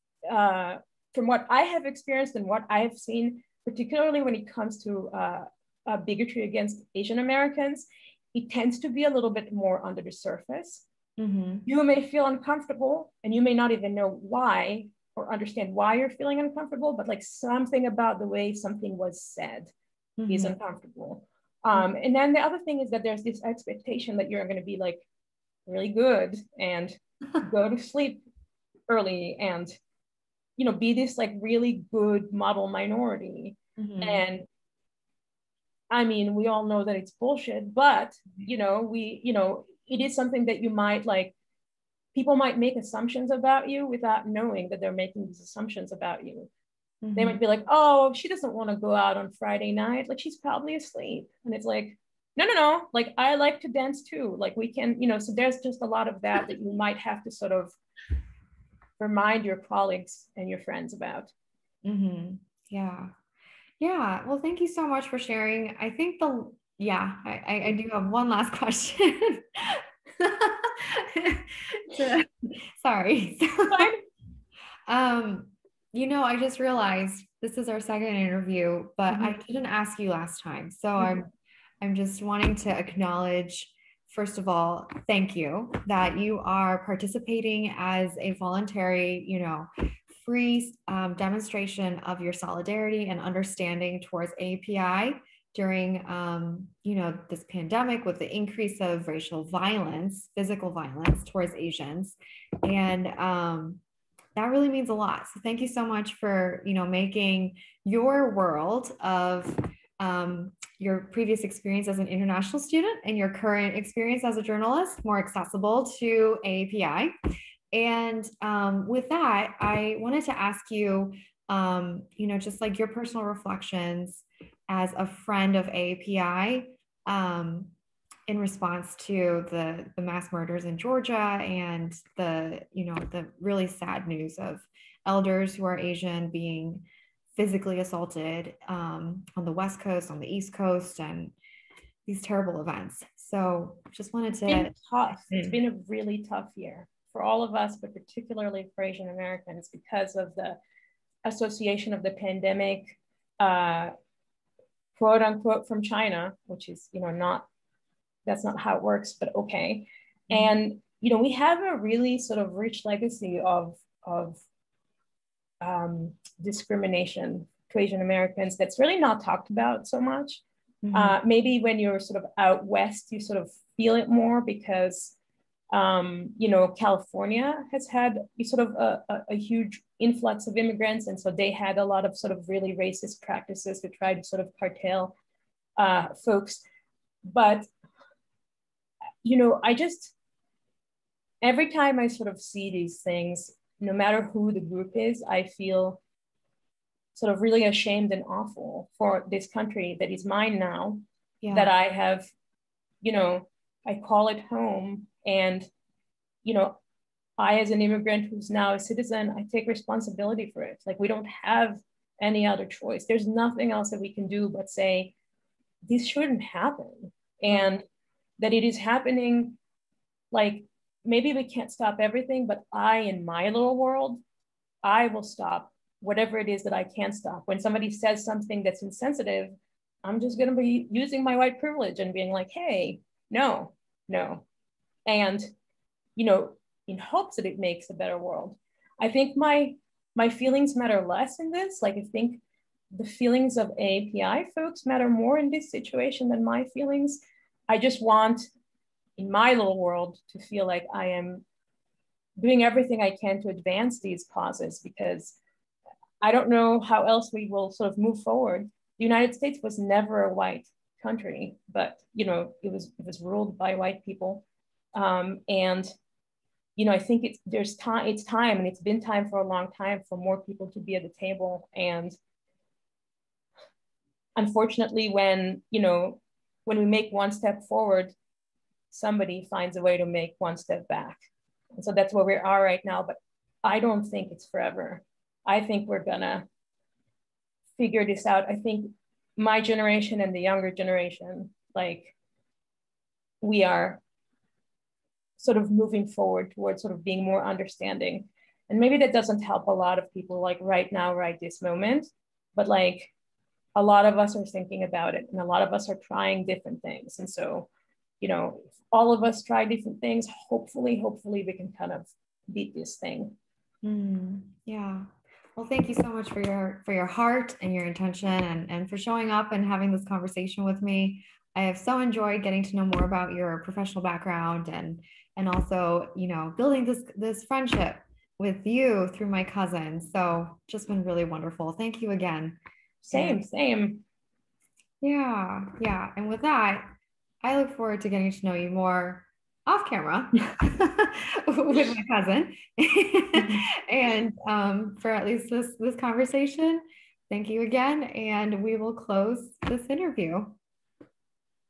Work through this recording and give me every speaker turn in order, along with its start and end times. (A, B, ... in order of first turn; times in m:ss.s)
0:00.3-0:10.8 A
0:11.2-0:11.7 B
0:11.6-0:19.7 A
0:20.2-0:20.6 B
0:20.3-0:25.0 A
0:25.6-0:28.2 A
0:28.9-0:29.8 A
0:30.6-0:34.5 A
0:33.8-0:34.2 B
0:35.9-0:41.3 A
0:42.1-0:46.5 A
0:47.0-0:47.4 B
0:47.2-0:57.8 A
0:59.0-1:01.3 A
1:01.8-1:03.1 B
1:03.8-1:14.0 B
1:13.7-1:14.0 A
1:14.9-1:21.3 B
1:19.1-1:19.4 A
1:21.8-1:43.8 B
1:44.4-1:57.1 B
1:57.7-2:07.7 B
2:08.3-2:16.8 B
2:17.3-2:21.3 B
2:22.0-2:24.7 B
2:24.5-2:30.6 A
2:31.2-2:33.9 A
2:34.9-2:37.5 A
2:38.2-2:44.4 A
2:45.6-2:50.4 A
2:50.8-2:51.2 B
2:50.9-2:55.2 A
2:55.7-3:05.1 A
3:05.8-3:06.6 A
3:07.2-3:07.7 A
3:09.2-3:10.1 A
3:11.4-3:16.0 A
3:17.1-3:22.3 A
3:21.4-3:21.7 B
3:23.0-3:25.7 A
3:26.4-3:26.8 A
3:27.4-3:35.1 A
3:35.8-3:37.8 A
3:38.4-3:39.6 A
3:40.3-3:44.2 A
3:44.8-3:54.4 A
3:55.0-3:55.5 A
3:56.2-4:08.5 A
4:09.2-4:11.4 A
4:12.4-4:15.4 A
4:16.2-4:25.9 A
4:26.8-4:32.2 A
4:34.4-4:38.1 A
4:38.9-4:46.4 A
4:47.8-4:52.1 A
4:53.4-4:54.0 A
4:55.4-5:03.1 A
5:03.7-5:07.7 A
5:08.2-5:13.3 A
5:13.8-5:32.6 B
5:33.0-5:34.0 A
5:33.1-5:33.4 B
5:35.0-5:36.9 B
5:37.4-5:50.6 B
5:43.4-5:43.6 A